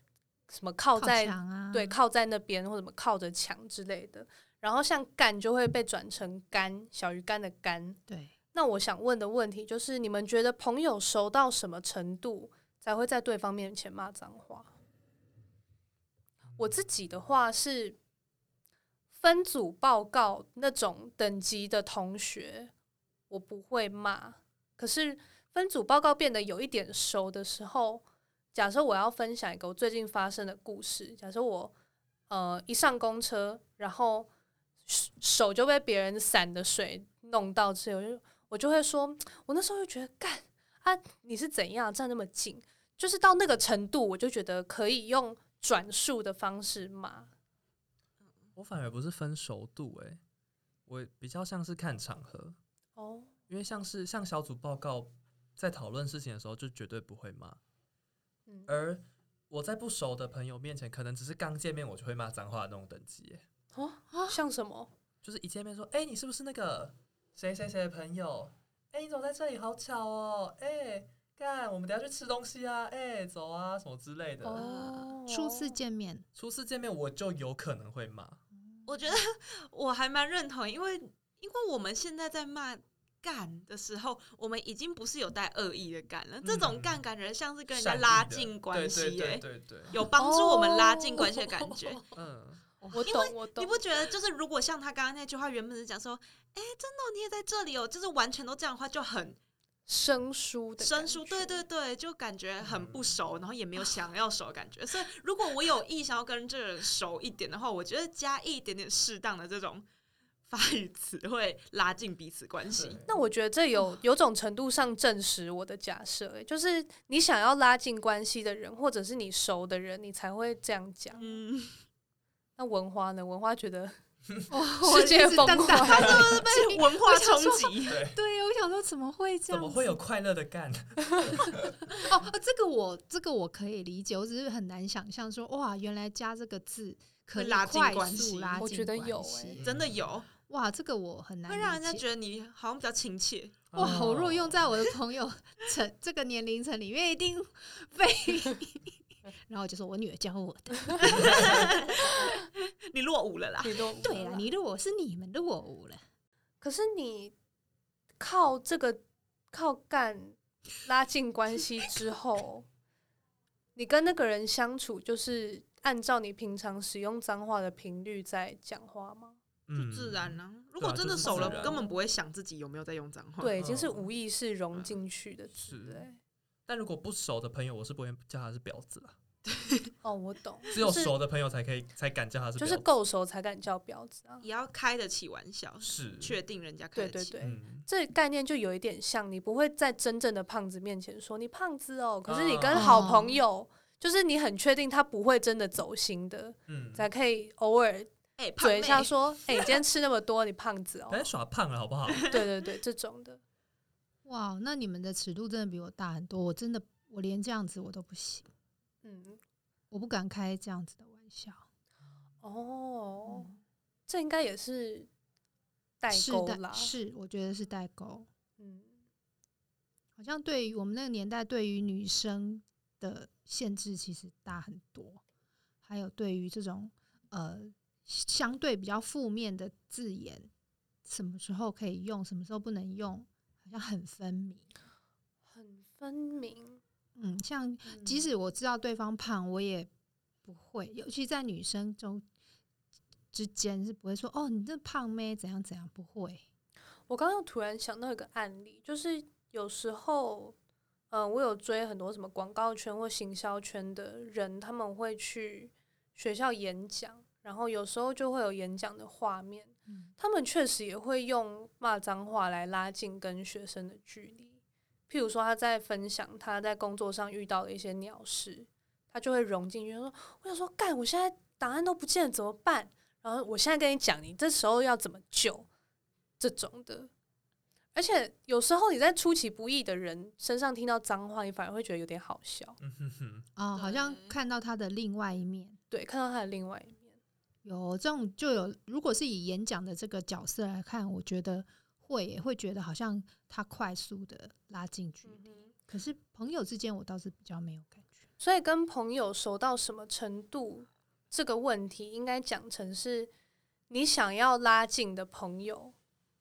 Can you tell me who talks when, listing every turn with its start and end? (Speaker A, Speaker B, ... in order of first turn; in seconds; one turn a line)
Speaker A: 0.5-8.0
Speaker B: 0.9-2.0
Speaker B: 8.1-8.3
Speaker A: 8.5-14.7
Speaker A: 16.6-18.0
Speaker A: 19.1-22.7
Speaker A: 23.3-31.7
Speaker A: 32.3-34.3
Speaker A: 34.9-47.3
Speaker C: 48.5-50.2
Speaker C: 50.9-52.6
Speaker A: 53.0-53.3
Speaker C: 53.5-57.6
Speaker A: 58.5-58.7
Speaker C: 58.7-63.4
Speaker A: 63.7-64.9
Speaker B: 64.1-64.4
Speaker C: 65.2-74.7
Speaker A: 74.4-75.8
Speaker D: 74.5-75.2
Speaker B: 75.3-76.2
Speaker C: 76.3-78.4
Speaker D: 78.8-92.1
Speaker C: 86.4-87.0
Speaker C: 87.7-90.0
Speaker A: 90.2-92.0
Speaker C: 92.1-92.6
Speaker A: 92.9-93.8
Speaker D: 92.9-99.4
Speaker A: 99.9-101.6
Speaker D: 100.8-109.8
Speaker C: 102.6-103.1
Speaker D: 110.5-113.0
Speaker C: 112.7-113.2
Speaker A: 113.1-121.4
Speaker D: 121.1-121.8
Speaker A: 122.6-123.9
Speaker B: 124.5-129.9
Speaker A: 124.8-126.3
Speaker D: 125.7-128.0
Speaker C: 127.8-128.2
Speaker C: 129.5-131.8
Speaker B: 132.0-139.6
Speaker D: 137.3-138.6
Speaker A: 138.6-139.6
Speaker C: 139.6-140.1
Speaker D: 139.6-140.3
Speaker B: 140.5-142.0
Speaker D: 141.5-143.7
Speaker C: 143.7-144.7
Speaker B: 143.7-151.7
Speaker D: 151.0-153.9
Speaker A: 153.6-154.5
Speaker B: 154.0-156.0
Speaker A: 156.6-157.3
Speaker A: 158.2-162.7
Speaker A: 163.8-169.4
Speaker C: 169.7-171.8
Speaker D: 169.7-173.6
Speaker A: 171.2-172.0
Speaker A: 173.4-176.2
Speaker C: 173.6-174.1
Speaker C: 175.6-176.1
Speaker C: 176.7-179.2
Speaker D: 179.4-179.9
Speaker A: 180.0-181.1
Speaker C: 180.7-182.8
Speaker A: 182.6-184.4
Speaker D: 184.4-187.4
Speaker C: 185.8-186.4
Speaker A: 186.9-201.2
Speaker C: 187.4-187.9
Speaker C: 192.2-193.0
Speaker B: 192.7-193.4
Speaker C: 196.7-197.1
Speaker D: 198.4-199.8
Speaker C: 201.1-202.3
Speaker A: 202.3-203.4
Speaker B: 204.2-208.5
Speaker A: 209.0-209.4
Speaker B: 209.9-211.6
Speaker A: 212.4-213.5
Speaker B: 213.3-213.6
Speaker A: 214.1-215.1
Speaker A: 216.0-216.9
Speaker B: 216.1-218.3
Speaker A: 218.6-218.9
Speaker B: 220.2-225.2
Speaker B: 225.8-230.5
Speaker B: 231.0-234.7
Speaker A: 235.5-236.8
Speaker B: 237.2-239.9
Speaker A: 237.9-238.2
Speaker B: 240.4-242.2
Speaker B: 243.3-246.4
Speaker A: 247.1-250.5
Speaker A: 251.1-264.6
Speaker A: 265.1-275.7
Speaker A: 276.4-277.1
Speaker A: 277.9-282.8
Speaker C: 282.8-283.5
Speaker B: 283.6-285.8
Speaker D: 283.7-284.3
Speaker A: 285.9-287.2
Speaker B: 287.6-298.2
Speaker A: 295.2-295.7
Speaker A: 298.4-303.3
Speaker A: 303.9-305.9